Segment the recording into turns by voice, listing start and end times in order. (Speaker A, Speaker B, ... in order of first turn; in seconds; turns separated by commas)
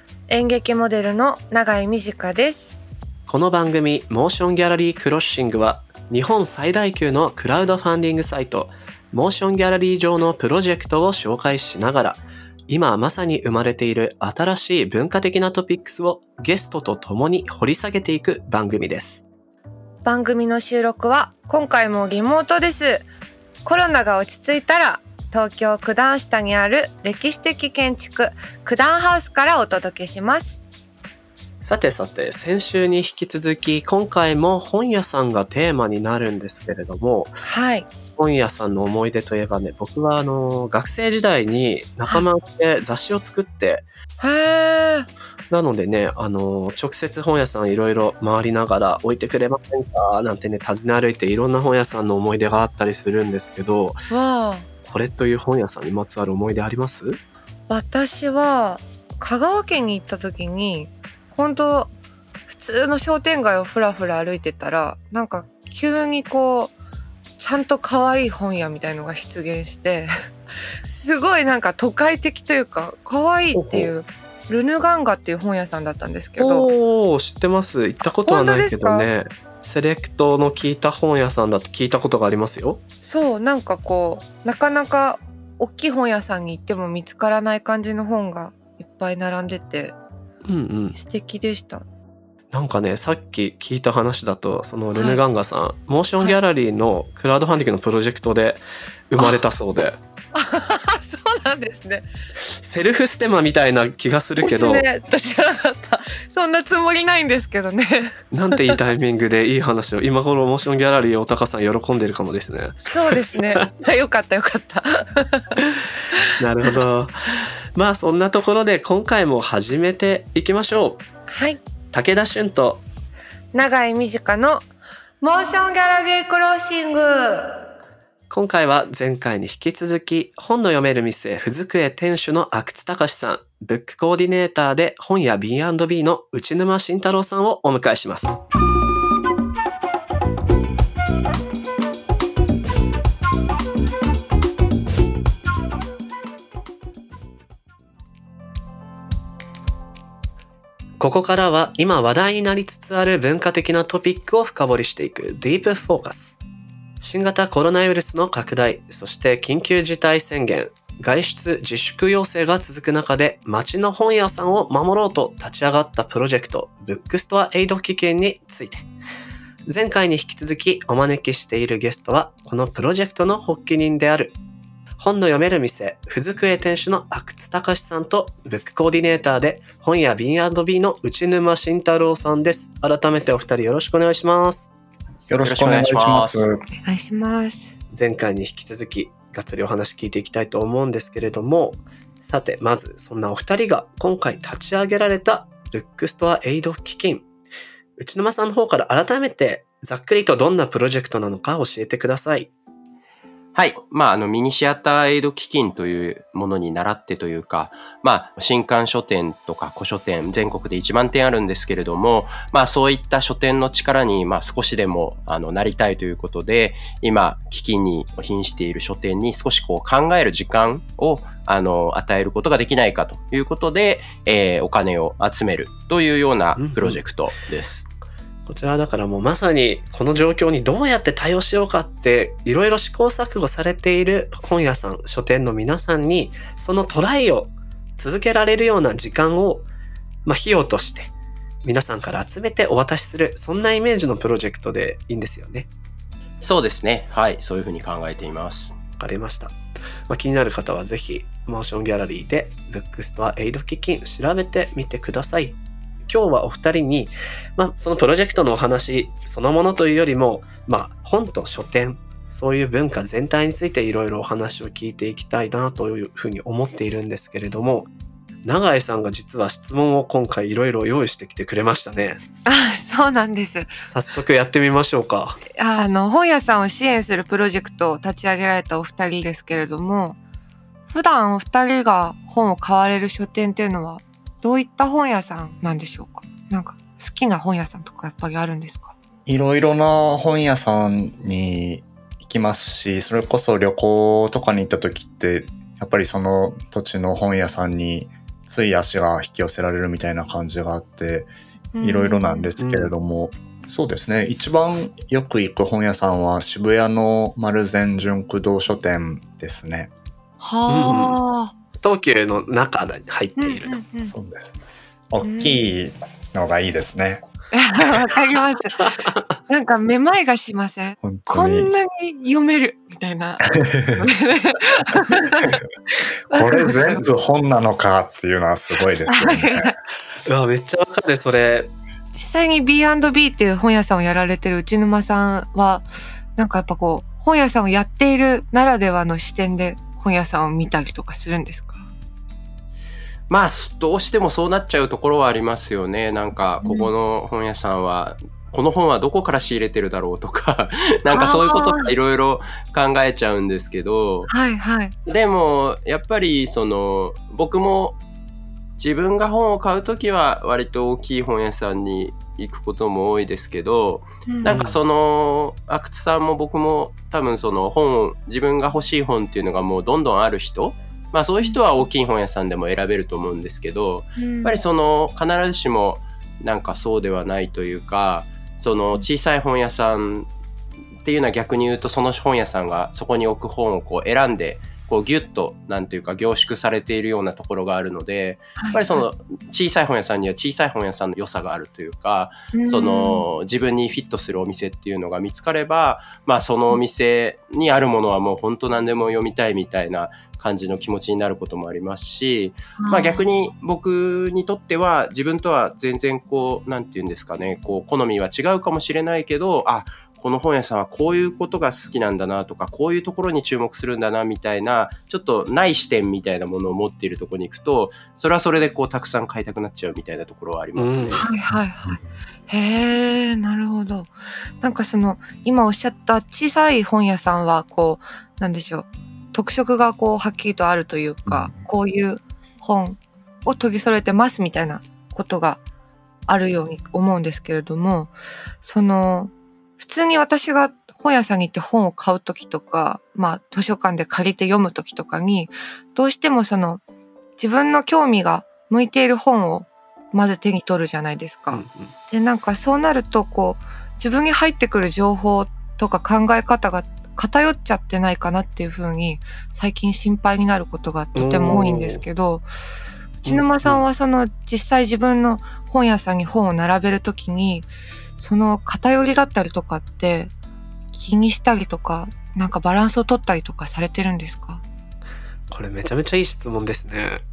Speaker A: 0.3-2.8, Speaker B: 3.3-19.3, Speaker A: 20.0-23.1, Speaker A: 23.6-30.6, Speaker B: 31.6-37.3, Speaker A: 37.4-37.9, Speaker B: 38.1-43.9, Speaker A: 44.2-45.1, Speaker B: 45.5-54.0, Speaker A: 54.1-54.7, Speaker B: 54.8-57.2, Speaker A: 57.7-61.9, Speaker A: 62.5-66.7, Speaker A: 67.4-70.1, Speaker A: 70.8-76.7, Speaker B: 73.5-73.9, Speaker B: 76.4-82.8, Speaker A: 78.2-79.1, Speaker A: 83.0-90.0, Speaker B: 90.5-91.0, Speaker A: 90.9-91.8, Speaker B: 92.5-100.0, Speaker A: 94.9-95.2, Speaker A: 100.3-102.1, Speaker B: 102.6-104.8, Speaker A: 104.4-108.8, Speaker B: 108.3-113.7, Speaker A: 112.8-115.5, Speaker B: 116.4-121.0, Speaker A: 121.3-121.6, Speaker B: 121.9-122.8, Speaker A: 123.5-124.7, Speaker A: 125.2-127.5, Speaker B: 128.3-138.4, Speaker B: 151.0-156.4, Speaker B: 157.0-168.9, Speaker B: 169.7-174.3, Speaker B: 175.0-184.7, Speaker C: 185.3-186.7, Speaker D: 185.4-186.5, Speaker A: 186.7-187.7, Speaker B: 187.9-197.3, Speaker B: 198.0-202.5, Speaker D: 203.5-227.9, Speaker B: 226.6-227.0, Speaker B: 228.4-239.7, Speaker B: 240.2-241.1, Speaker B: 241.6-245.7, Speaker D: 246.4-248.7, Speaker B: 249.0-249.6, Speaker B: 250.1-267.9, Speaker B: 268.4-272.2, Speaker A: 272.4-273.8, Speaker B: 273.9-275.4, Speaker A: 275.6-280.2, Speaker A: 280.9-288.9, Speaker C: 289.2-301.3, Speaker A: 301.7-302.5, Speaker C: 301.8-309.9, Speaker B: 302.6-302.9, Speaker A: 310.4-311.5, Speaker B: 310.7-311.2, Speaker B: 311.8-313.8, Speaker A: 313.4-314.1, Speaker C: 314.0-314.5, Speaker C: 315.1-317.2, Speaker A: 315.2-315.6, Speaker A: 317.5-318.8, Speaker B: 318.8-319.2, Speaker A: 319.5-327.0, Speaker C: 321.0-321.7, Speaker C: 323.6-324.0, Speaker C: 326.3-329.7, Speaker A: 329.1-329.7, Speaker B: 330.2-331.7, Speaker A: 332.1-341.9, Speaker D: 343.3-354.3, Speaker A: 346.6-346.9, Speaker A: 351.1-351.9, Speaker A: 354.3-354.9, Speaker D: 355.1-358.0, Speaker D: 358.8-380.3, Speaker A: 364.3-364.6, Speaker B: 364.4-364.8, Speaker A: 374.2-374.6, Speaker D: 381.0-421.2, Speaker A: 388.6-389.0, Speaker A: 392.5-393.2, Speaker A: 402.8-403.2, Speaker B: 420.8-421.2, Speaker A: 421.1-435.6, Speaker C: 421.5-422.0, Speaker C: 431.3-431.6, Speaker A: 436.3-446.8, Speaker A: 447.4-462.4, Speaker B: 451.5-451.9, Speaker B: 461.1-462.0, Speaker A: 463.2-470.3, Speaker B: 463.2-463.8, Speaker A: 470.9-474.6, Speaker B: 475.5-477.2